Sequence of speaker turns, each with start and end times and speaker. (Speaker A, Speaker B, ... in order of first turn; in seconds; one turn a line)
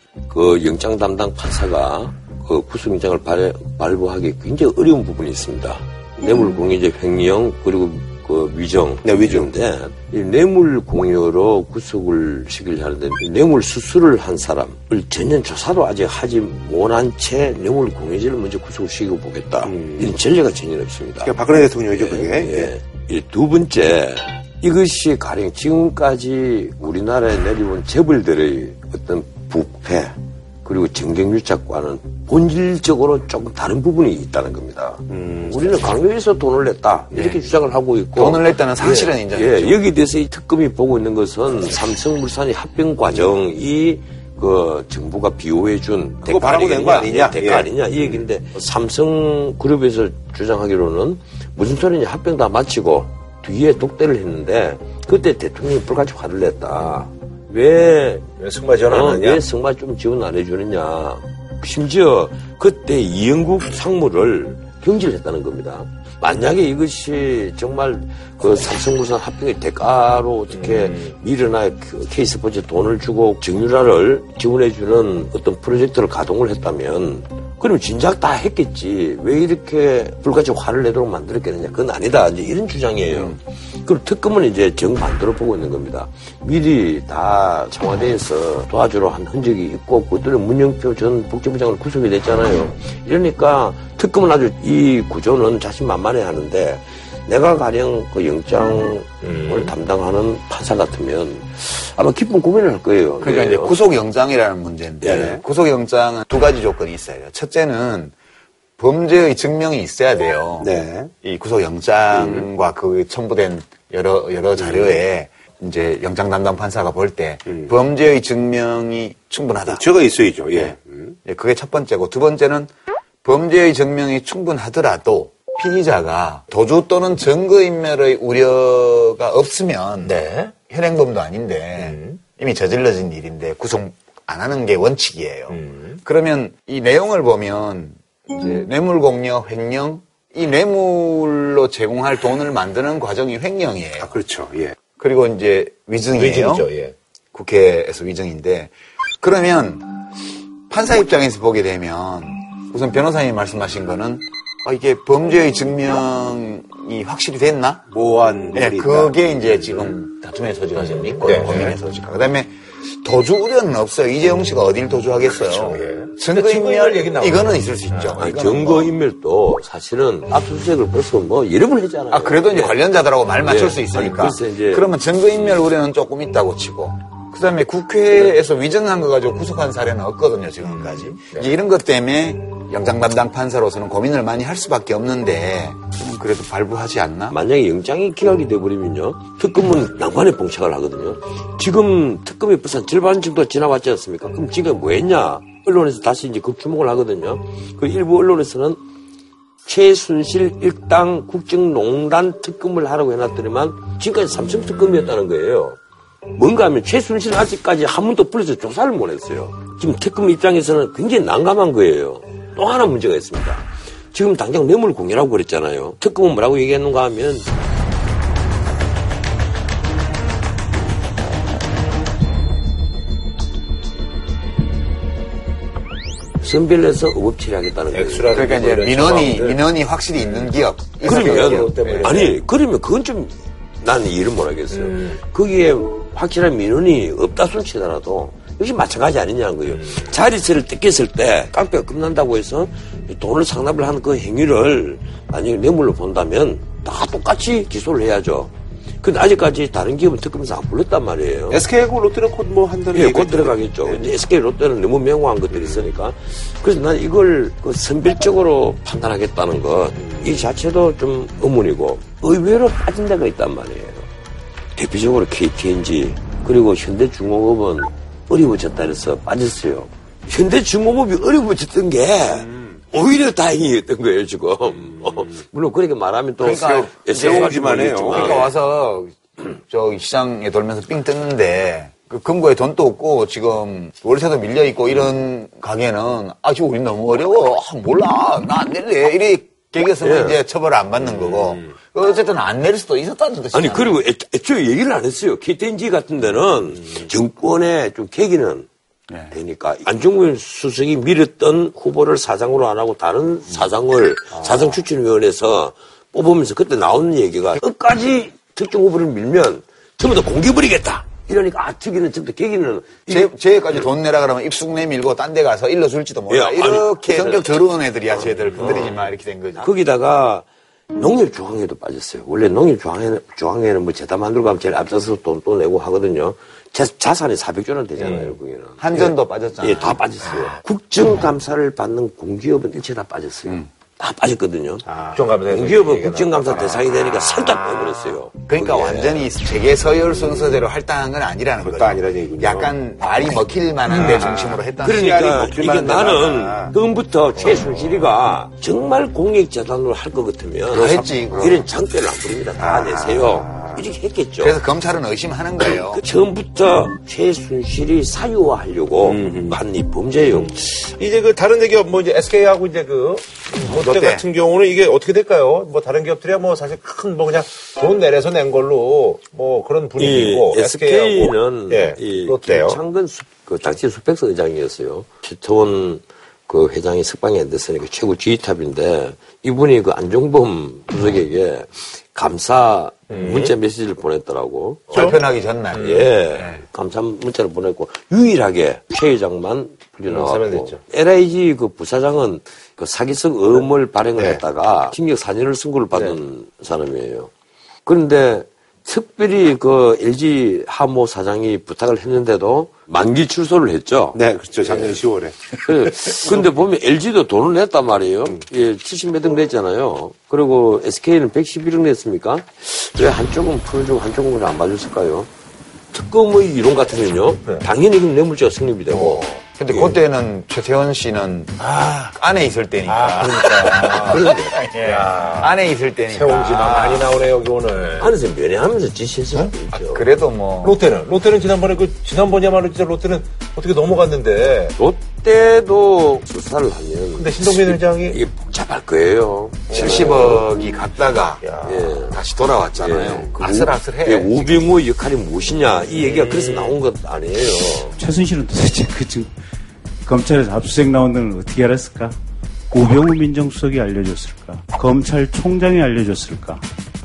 Speaker A: 0.3-21.4
Speaker B: 9.0-9.5
Speaker B: 19.6-20.2
Speaker B: 21.2-22.7
Speaker A: 21.9-58.3
Speaker B: 35.1-35.9
Speaker C: 38.2-39.8
Speaker B: 46.2-48.2
Speaker B: 58.4-59.4
Speaker A: 58.9-103.8
Speaker B: 70.5-71.2
Speaker C: 83.1-83.4
Speaker B: 99.2-99.7
Speaker C: 103.2-108.1
Speaker A: 105.0-105.4
Speaker B: 105.0-105.4
Speaker C: 108.8-110.7
Speaker B: 110.6-111.1
Speaker C: 111.2-119.8
Speaker B: 112.1-112.5
Speaker B: 114.6-115.0
Speaker B: 117.5-117.7
Speaker B: 119.7-121.2
Speaker C: 120.5-122.7
Speaker C: 123.2-130.2
Speaker B: 130.0-130.5
Speaker C: 130.7-144.2
Speaker B: 131.8-132.2
Speaker B: 135.5-136.0
Speaker B: 144.0-144.8
Speaker C: 145.0-146.7
Speaker B: 146.1-146.9
Speaker C: 147.3-150.0
Speaker C: 150.7-157.9
Speaker B: 157.9-159.9
Speaker C: 158.5-168.9
Speaker B: 160.8-161.8
Speaker B: 165.4-168.2
Speaker A: 168.2-172.8
Speaker C: 172.1-187.4
Speaker A: 173.4-174.9
Speaker B: 180.8-181.5
Speaker A: 187.3-198.8
Speaker A: 199.7-205.8
Speaker A: 206.3-217.5
Speaker A: 226.4-228.3
Speaker B: 227.9-229.6
Speaker C: 228.3-232.2
Speaker B: 231.0-232.4
Speaker A: 231.0-251.6
Speaker B: 234.7-235.2
Speaker B: 239.7-240.1
Speaker B: 251.5-254.1
Speaker A: 252.9-264.1
Speaker B: 255.5-255.9
Speaker B: 260.0-260.5
Speaker A: 264.8-278.5
Speaker B: 272.3-272.8
Speaker B: 274.8-275.3
Speaker C: 276.4-294.0
Speaker B: 276.5-278.5
Speaker A: 290.0-290.4
Speaker A: 293.5-298.7
Speaker C: 299.1-299.3
Speaker A: 299.3-313.3
Speaker C: 313.1-319.7
Speaker A: 316.3-317.6
Speaker A: 318.5-319.0
Speaker A: 319.6-339.3
Speaker B: 328.0-328.4
Speaker C: 328.8-330.0
Speaker B: 330.3-330.6
Speaker C: 333.4-333.7
Speaker B: 334.9-338.2
Speaker C: 338.5-345.2
Speaker B: 341.6-342.8
Speaker B: 343.9-346.8
Speaker A: 344.8-354.6
Speaker B: 347.4-348.1
Speaker C: 350.7-351.7
Speaker B: 352.6-353.8
Speaker C: 354.4-356.0
Speaker A: 355.9-360.8
Speaker B: 359.0-359.6
Speaker B: 360.3-372.8
Speaker C: 363.6-364.3
Speaker A: 370.0-385.1
Speaker B: 383.1-383.6
Speaker B: 384.9-385.2
Speaker C: 384.9-386.6
Speaker B: 385.7-386.1
Speaker A: 385.8-397.3
Speaker B: 390.1-390.8
Speaker B: 394.2-394.4
Speaker A: 397.9-404.9
Speaker B: 404.1-406.5
Speaker A: 405.6-415.3
Speaker A: 415.9-419.2
Speaker B: 418.9-420.0
Speaker C: 419.6-427.1
Speaker B: 421.6-422.1
Speaker B: 422.9-425.6
Speaker A: 423.9-424.5
Speaker B: 426.1-428.1
Speaker A: 428.0-430.0
Speaker B: 429.3-430.0
Speaker C: 429.9-430.8
Speaker B: 430.6-434.8
Speaker A: 434.8-440.4
Speaker B: 437.2-438.2
Speaker B: 439.7-440.4
Speaker C: 439.7-441.4
Speaker B: 441.4-442.1
Speaker A: 441.6-442.2
Speaker C: 442.1-444.7
Speaker A: 442.8-447.9
Speaker B: 445.9-446.8
Speaker D: 448.0-449.3
Speaker D: 450.1-452.1
Speaker D: 452.7-456.6